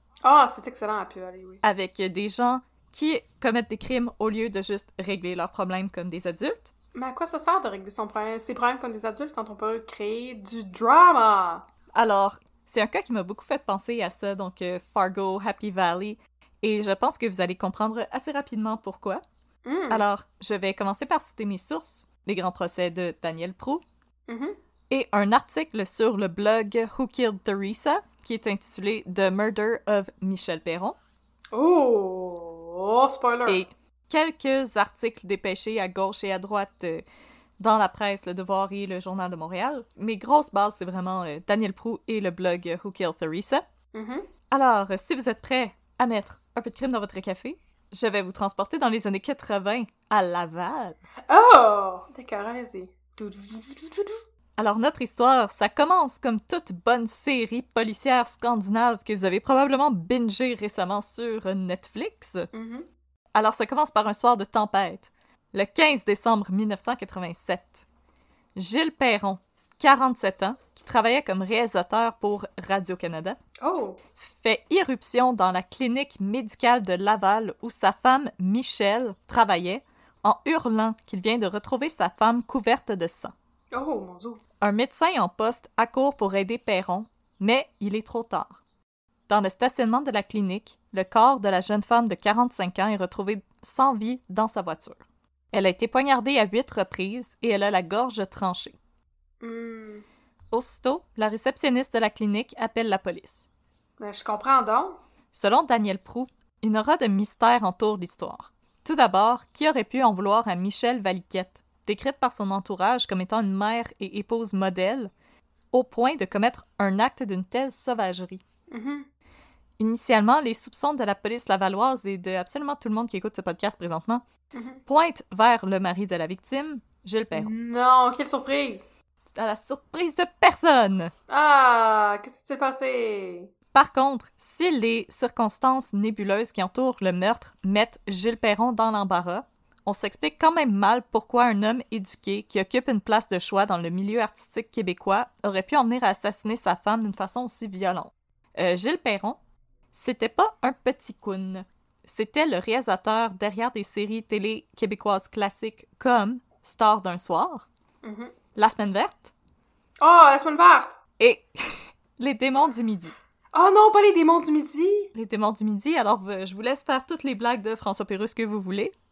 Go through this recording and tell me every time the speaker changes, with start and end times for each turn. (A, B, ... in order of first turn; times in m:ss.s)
0:00.2-0:01.6 A
0:01.6-0:06.7 B
0:06.9-0:11.6 A
0:11.9-0:19.2 B
0:19.6-0:20.0 A
0:19.9-0:23.8 B
0:24.3-0:24.6 A
0:24.9-0:31.0 B
0:31.5-0:33.6 A
0:33.5-0:37.0 B
0:37.6-0:43.6 B
0:43.9-0:44.3 A
0:44.5-0:51.0 B
0:51.3-0:54.2 A
0:54.6-1:02.5 B
1:02.5-1:02.9 A
1:03.3-1:07.8 B
1:08.6-1:13.4 B
1:13.6-1:14.0 A
1:14.2-1:23.3 B
1:23.7-1:24.4 A
1:24.6-1:28.6 B
1:29.3-1:38.8 B
1:39.4-1:40.0 A
1:40.5-1:43.5 B
1:44.0-1:45.0 A
1:45.3-1:55.1 B
1:55.7-1:58.4 B
1:58.7-1:59.1 A
1:59.8-2:04.2 B
2:04.5-2:04.8 A
2:04.8-2:07.5 B
2:07.3-2:08.9 A
2:09.3-2:11.1 B
2:11.3-2:13.5 A
2:13.7-2:29.4 B
2:29.9-2:37.6 B
2:38.0-2:38.3 A
2:38.6-2:39.3 B
2:40.0-2:41.0 A
2:41.2-2:43.1 B
2:43.5-2:45.1 A
2:45.1-2:48.9 B